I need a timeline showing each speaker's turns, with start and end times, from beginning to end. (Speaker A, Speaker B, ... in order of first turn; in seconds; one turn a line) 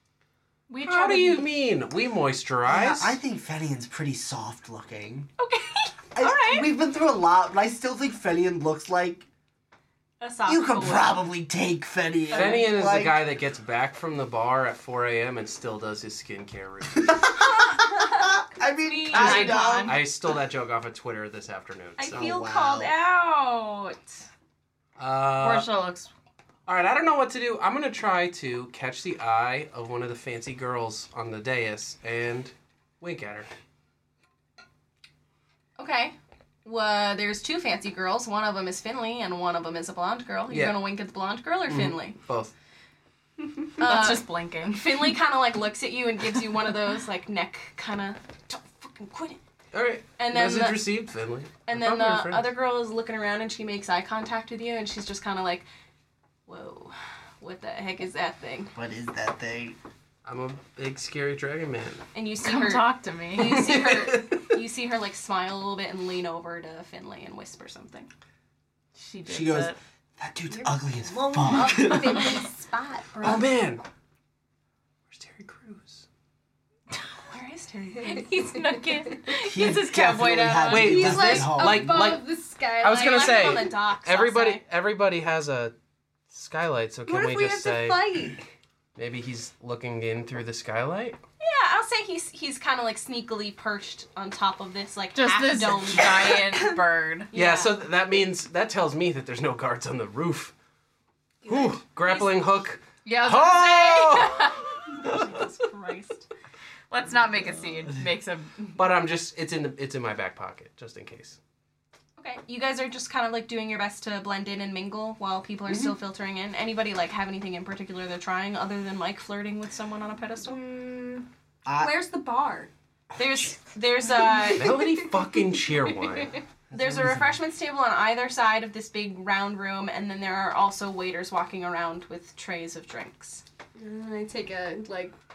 Speaker A: 0.7-1.5
Speaker B: 0.8-3.1
Speaker C: 2.6-5.3
Speaker A: 5.4-6.7
Speaker C: 6.1-9.3
Speaker A: 10.2-11.2
Speaker C: 10.4-13.2
Speaker A: 12.3-12.7
Speaker B: 12.3-17.2
Speaker C: 17.0-20.1
Speaker A: 17.7-18.3
Speaker A: 18.8-19.9
Speaker D: 19.1-20.0
Speaker B: 19.8-22.3
Speaker A: 22.0-24.2
Speaker C: 22.0-22.9
Speaker B: 25.0-25.7
Speaker D: 25.4-26.1
Speaker B: 26.6-33.5
Speaker A: 35.8-42.2
Speaker B: 40.5-40.8
Speaker B: 41.7-42.5
Speaker D: 43.8-45.1
Speaker A: 43.8-49.4
Speaker B: 49.7-52.5
Speaker A: 50.2-50.8
Speaker A: 51.7-55.6
Speaker A: 56.5-58.7
Speaker C: 58.7-59.8
Speaker B: 60.2-62.0
Speaker A: 62.1-68.1
Speaker D: 62.4-63.9
Speaker B: 63.5-64.4
Speaker D: 69.0-69.8
Speaker C: 69.3-72.4
Speaker E: 70.5-73.5
Speaker B: 73.2-73.8
Speaker B: 75.1-76.0
Speaker A: 77.3-79.2
Speaker E: 78.0-79.3
Speaker D: 78.7-80.7
Speaker C: 79.4-82.1
Speaker E: 80.5-83.7
Speaker B: 80.7-85.7
Speaker A: 82.8-84.6
Speaker B: 86.3-88.2
Speaker E: 87.1-88.5
Speaker B: 89.0-91.2
Speaker A: 91.4-96.7
Speaker D: 95.1-97.3
Speaker A: 97.3-97.8
Speaker B: 97.3-100.5
Speaker A: 101.5-102.4
Speaker B: 101.5-105.2
Speaker D: 103.0-104.8
Speaker A: 104.2-106.3
Speaker D: 106.9-108.8
Speaker B: 108.7-111.4
Speaker A: 112.2-120.6
Speaker B: 115.7-115.9
Speaker E: 120.5-122.7
Speaker C: 121.6-121.9
Speaker A: 123.2-124.7
Speaker E: 124.3-125.1
Speaker B: 124.5-126.4
Speaker E: 126.0-126.4
Speaker C: 126.7-127.3
Speaker A: 126.7-133.4
Speaker E: 133.8-135.1